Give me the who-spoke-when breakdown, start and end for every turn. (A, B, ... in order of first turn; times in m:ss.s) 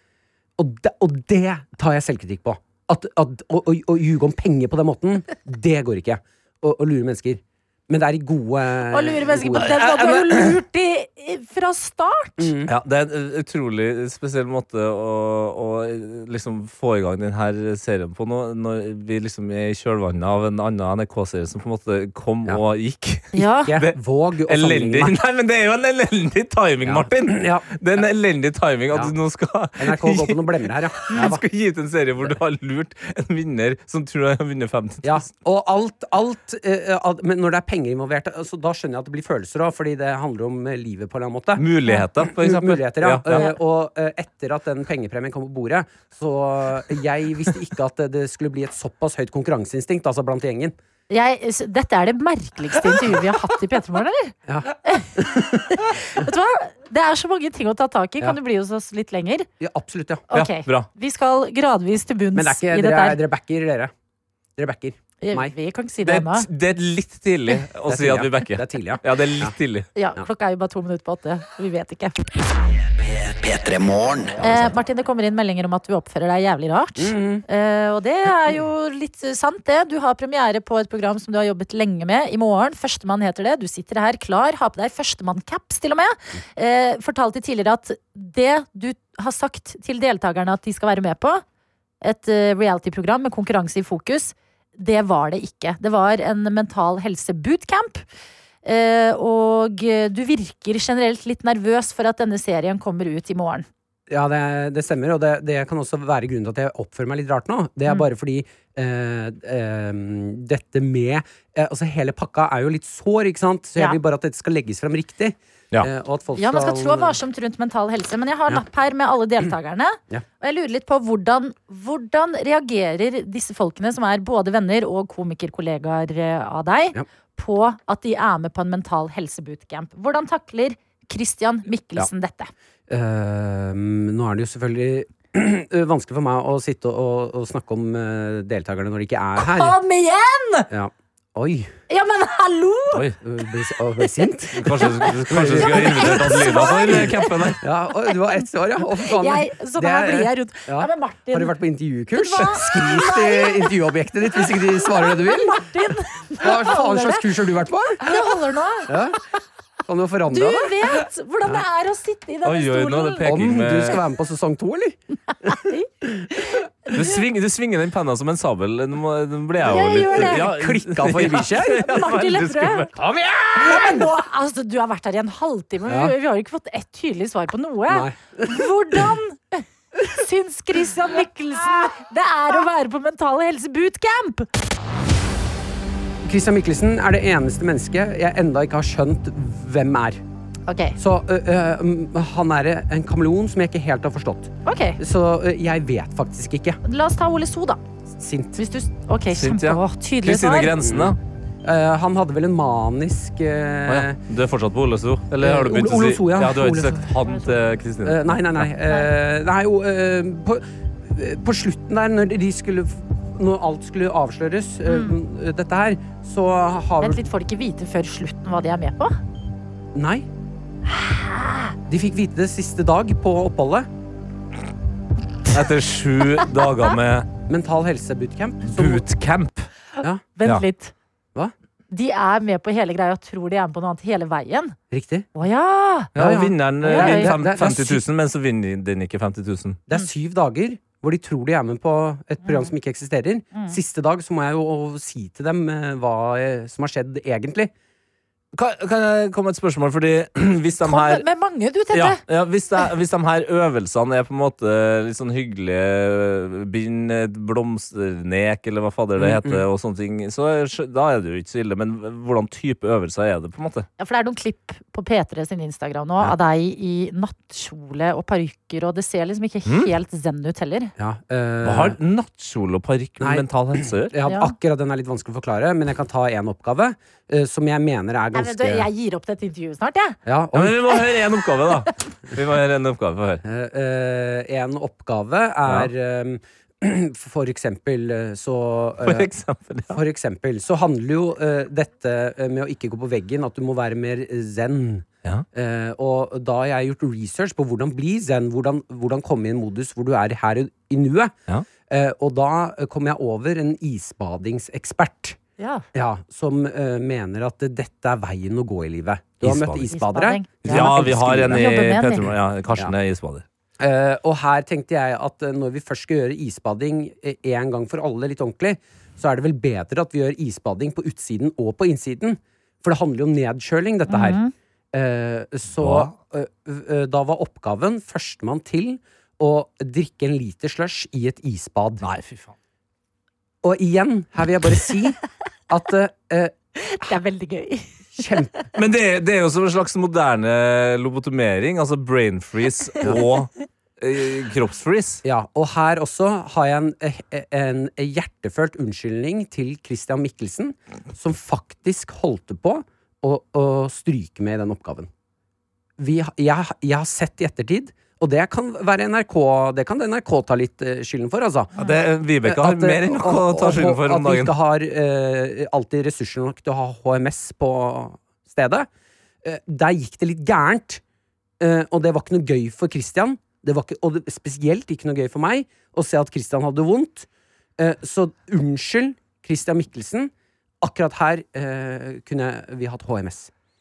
0:00.6-0:09.8 A
0:08.9-0:12.5 B
0:09.6-0:10.6 C
0:12.4-0:12.7 A
0:12.7-0:24.0 C
0:23.3-0:23.7 B
0:23.6-0:25.2 A
0:24.5-0:35.2 C
0:26.8-0:27.7 A
0:29.8-0:31.4 A
0:35.0-0:41.7 A
0:41.6-0:43.5 C
0:42.2-0:50.7 A
0:51.1-0:59.5 B
0:54.5-0:55.5 A
0:59.6-1:00.3 A
1:00.3-1:03.2 B
1:00.3-1:00.9 C
1:02.3-1:03.9 A
1:04.6-1:05.5 A
1:05.2-1:06.5 B
1:06.0-1:09.9 C
1:07.8-1:09.6 A
1:10.0-1:12.2 B
1:12.7-1:14.7 D
1:14.4-1:31.4 B
1:17.0-1:17.4 A
1:32.0-1:38.0 B
1:38.6-1:43.7 B
1:44.1-1:57.2 A
1:56.4-2:12.5 B
2:12.9-2:19.8 A
2:19.4-2:20.7 B
2:20.7-2:21.7 A
2:21.9-2:23.0 B
2:23.1-2:27.0 A
2:24.5-2:27.6 C
2:24.8-2:25.1 B
2:25.6-2:27.5 B
2:27.6-2:35.7 A
2:29.0-2:31.6 B
2:32.1-2:33.7 B
2:34.5-2:37.3 B
2:36.4-2:38.3 A
2:38.0-2:39.0 B
2:38.9-2:39.2 A
2:39.8-2:40.8 A
2:40.3-2:43.3 B
2:42.4-2:44.0 C
2:43.2-2:45.0 A
2:45.4-2:47.0 B
2:46.9-2:53.0 C
2:49.7-2:50.5 B
2:50.2-2:51.8 A
2:51.6-2:52.9 B
2:53.0-2:54.1 A
2:53.5-3:04.5 B
2:55.9-2:56.1 A
2:57.9-2:58.6 A
3:06.2-3:10.2 A
3:10.7-3:11.0 B
3:11.0-3:16.8 A
3:14.6-3:15.0 B
3:16.8-3:17.8 B
3:18.2-3:18.6 A
3:18.6-3:20.8 B
3:19.3-3:21.2 C
3:20.7-3:24.2 A
3:23.9-3:28.7 C
3:25.4-3:27.1 A
3:28.0-3:37.2 A
3:34.8-3:35.2 B
3:37.0-3:39.2 B
3:39.9-3:40.3 A
3:40.9-3:41.7 B
3:41.9-3:43.9 A
3:45.5-3:47.3 C
3:47.5-3:49.0 A
3:48.6-3:49.7 C
3:50.0-3:50.9 B
3:50.0-3:50.3 A
3:51.9-3:54.8 B
3:54.9-3:55.3 A
3:55.4-3:56.1 B
3:56.1-3:59.8 C
3:56.2-3:58.0 A
3:56.8-3:57.4 B
3:59.9-4:07.7 A
4:08.5-4:11.2 C
4:10.8-4:12.2 B
4:11.9-4:23.9 C
4:19.2-4:19.6 A
4:24.0-4:30.9 B
4:31.0-4:32.0 A
4:31.6-4:34.2 C
4:33.2-4:38.9 A
4:34.2-4:34.5 B
4:38.3-4:40.2 B
4:40.3-4:41.0 A
4:40.5-4:43.4 C
4:43.4-4:49.3 A
4:45.7-4:45.9 C
4:49.0-4:50.0 C
4:49.9-5:01.4 A
5:01.9-5:05.4 A
5:05.6-5:05.8 B
5:05.9-5:11.6 A
5:09.4-5:09.9 C
5:09.9-5:12.3 B
5:10.6-5:13.4 C
5:13.8-5:24.4 A
5:24.1-5:24.5 B
5:24.9-5:32.1 A
5:25.8-5:26.1 C
5:32.0-5:32.5 C
5:33.6-5:35.2 A
5:35.7-5:36.6 A
5:36.8-5:38.4 B
5:38.1-5:38.6 A
5:38.7-5:45.2 C
5:43.0-5:43.3 A
5:45.2-5:55.1 A
5:56.0-6:01.9 A
6:01.8-6:04.5 C
6:02.4-6:08.9 A
6:09.4-6:11.0 A
6:11.6-6:23.5 A